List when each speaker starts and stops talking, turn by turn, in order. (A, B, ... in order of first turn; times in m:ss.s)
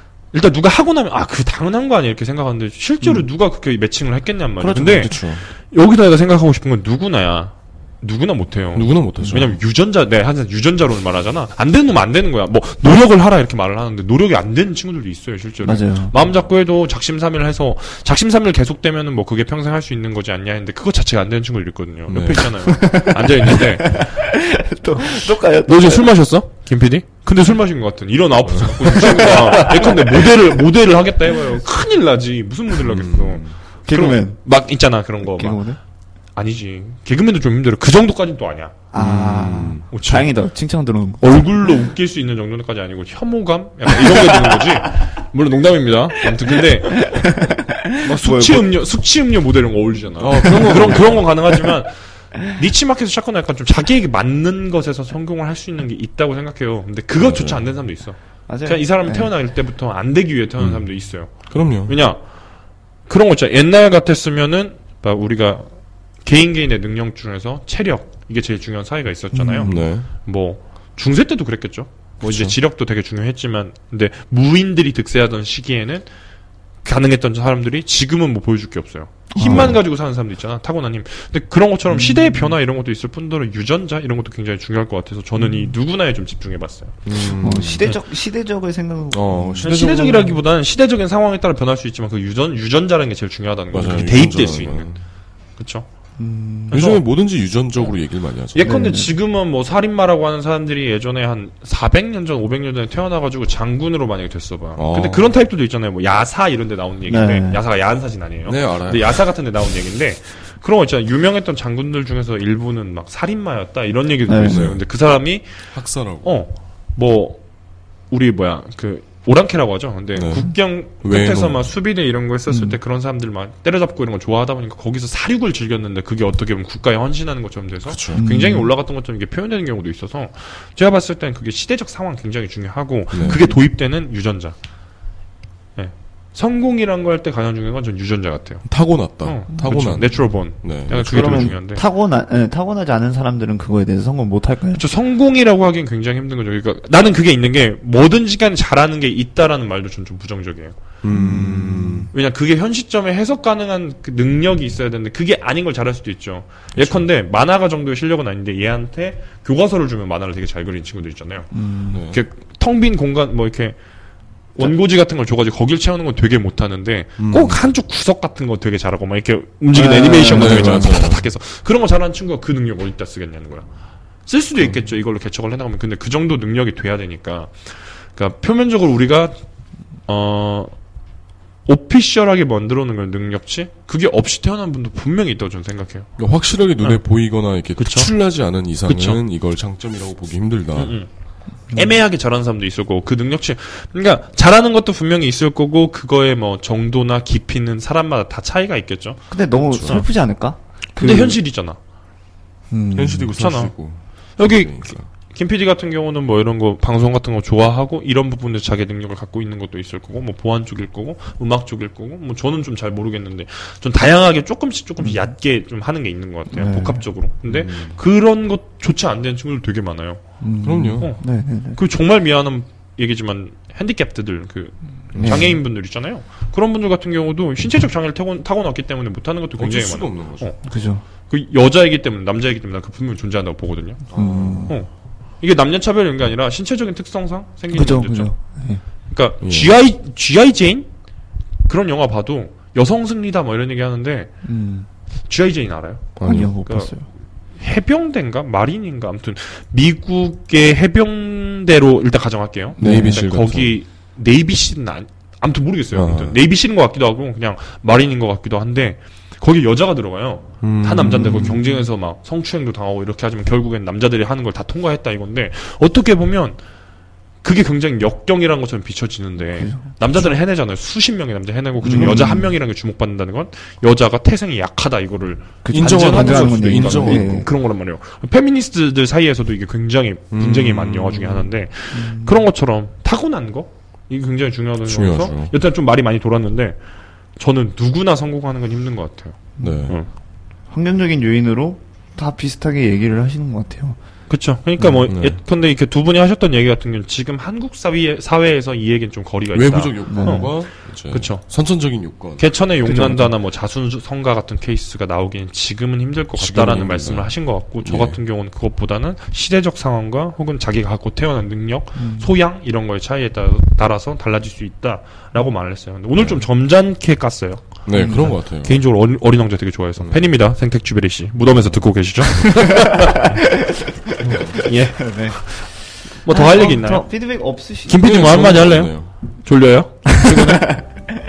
0:00.3-0:24.1 A
0:04.6-0:05.4 B
0:04.6-0:04.9 C
0:08.7-0:09.6 B
0:15.6-0:16.2 C
0:22.1-0:22.6 B
0:22.6-0:26.1 C
0:25.6-0:35.6 A
0:28.8-0:30.3 C
0:32.8-0:33.6 B
0:33.8-0:34.4 C
0:35.2-0:35.8 C
0:36.3-0:38.7 A
0:38.9-0:41.7 C
0:38.9-0:39.9 B
0:39.9-0:40.4 A
0:41.2-0:47.3 A
0:44.4-0:44.6 C
0:46.8-0:48.7 C
0:48.0-1:01.3 A
0:50.2-0:51.3 B
0:50.4-0:51.0 C
0:57.2-0:57.6 B
0:58.5-0:59.3 C
1:00.6-1:00.8 B
1:01.5-1:02.0 B
1:01.8-1:02.2 A
1:03.1-1:05.7 A
1:06.2-1:16.1 A
1:09.3-1:09.8 C
1:09.6-1:10.1 B
1:12.2-1:12.6 B
1:16.8-1:27.0 A
1:19.3-1:19.8 C
1:19.4-1:19.8 B
1:21.9-1:22.6 C
1:25.3-1:25.8 C
1:27.0-1:27.9 B
1:27.3-1:29.7 C
1:29.1-1:30.4 B
1:29.6-1:35.0 A
1:33.7-1:35.0 B
1:35.6-1:35.9 A
1:36.2-1:36.8 C
1:36.7-1:37.0 A
1:36.7-1:38.6 B
1:38.5-1:55.5 A
1:38.6-1:39.1 C
1:44.8-1:45.3 B
1:47.1-1:47.6 C
1:48.4-1:49.2 B
1:54.3-1:54.8 C
1:54.3-1:55.1 B
1:55.7-1:56.3 B
1:56.2-1:57.4 A
1:58.1-2:14.6 A
2:00.1-2:01.7 B
2:02.5-2:02.8 C
2:07.8-2:08.2 B
2:08.1-2:08.7 C
2:13.1-2:13.4 B
2:15.8-2:18.6 A
2:18.6-2:21.5 B
2:19.2-2:21.8 A
2:20.9-2:24.8 C
2:24.7-2:30.8 A
2:31.0-2:32.1 B
2:31.1-2:32.1 C
2:32.1-2:41.5 A
2:36.7-2:37.0 C
2:41.5-2:42.0 C
2:41.9-2:42.2 B
2:42.0-2:43.8 A
2:44.6-2:53.6 A
2:47.2-2:47.6 B
2:49.7-2:51.0 C
2:50.2-2:51.3 B
2:54.2-2:57.6 A
2:54.6-2:54.8 B
2:58.1-2:59.4 A
3:00.1-3:00.7 A
3:01.6-3:06.1 A
3:06.2-3:10.9 B
3:07.8-3:08.1 A
3:08.8-3:09.2 A
3:10.7-3:11.1 A
3:11.7-3:19.2 A
3:19.3-3:21.4 C
3:19.7-3:20.0 B
3:19.8-3:20.1 A
3:21.0-3:21.8 A
3:22.7-3:23.3 C
3:22.9-3:25.1 B
3:23.3-3:23.7 A
3:24.4-3:40.2 A
3:35.0-3:35.3 C
3:36.5-3:37.0 C
3:37.4-3:38.0 B
3:40.4-3:41.8 C
3:40.6-3:41.1 B
3:41.7-3:50.6 A
3:45.1-3:45.6 B
3:45.1-3:45.6 C
3:49.6-3:50.5 B
3:50.6-3:51.0 C
3:51.3-3:54.0 A
3:54.1-3:54.7 B
3:54.1-3:54.8 C
3:54.7-3:58.3 A
3:57.7-3:58.8 C
3:59.1-4:00.9 A
3:59.4-3:59.8 B
4:01.6-4:04.3 A
4:04.4-4:04.9 C
4:05.3-4:06.9 A
4:06.2-4:06.5 B
4:06.2-4:07.1 C
4:07.6-4:26.6 A
4:12.8-4:13.8 B
4:12.8-4:13.2 C
4:15.9-4:16.4 B
4:20.6-4:21.6 B
4:21.0-4:21.9 C
4:27.4-4:46.8 A
4:29.4-4:30.0 C
4:31.8-4:32.6 C
4:31.9-4:32.3 B
4:35.6-4:37.5 C
4:35.7-4:37.5 B
4:40.3-4:41.5 B
4:41.9-4:42.4 C
4:44.8-4:45.5 B
4:47.4-4:50.1 A
4:49.6-4:49.9 C
4:49.6-4:50.0 B
4:50.7-4:54.0 C
4:54.3-5:00.5 A
4:54.8-4:55.0 C
4:55.1-4:55.4 B
4:59.5-5:02.5 B
5:00.1-5:00.5 C
5:01.1-5:01.4 A
5:02.4-5:23.2 A
5:02.8-5:03.3 C
5:06.4-5:08.2 B
5:11.9-5:12.3 C
5:16.2-5:16.4 B
5:17.8-5:18.8 B
5:17.9-5:18.3 C
5:20.0-5:20.3 B
5:22.3-5:25.4 C
5:24.2-5:24.6 B
5:24.6-5:25.7 A
5:26.2-5:27.1 A
5:26.2-5:28.0 C
5:27.8-5:28.9 A
5:28.0-5:29.1 B
5:29.4-5:30.8 A
5:30.1-5:31.0 C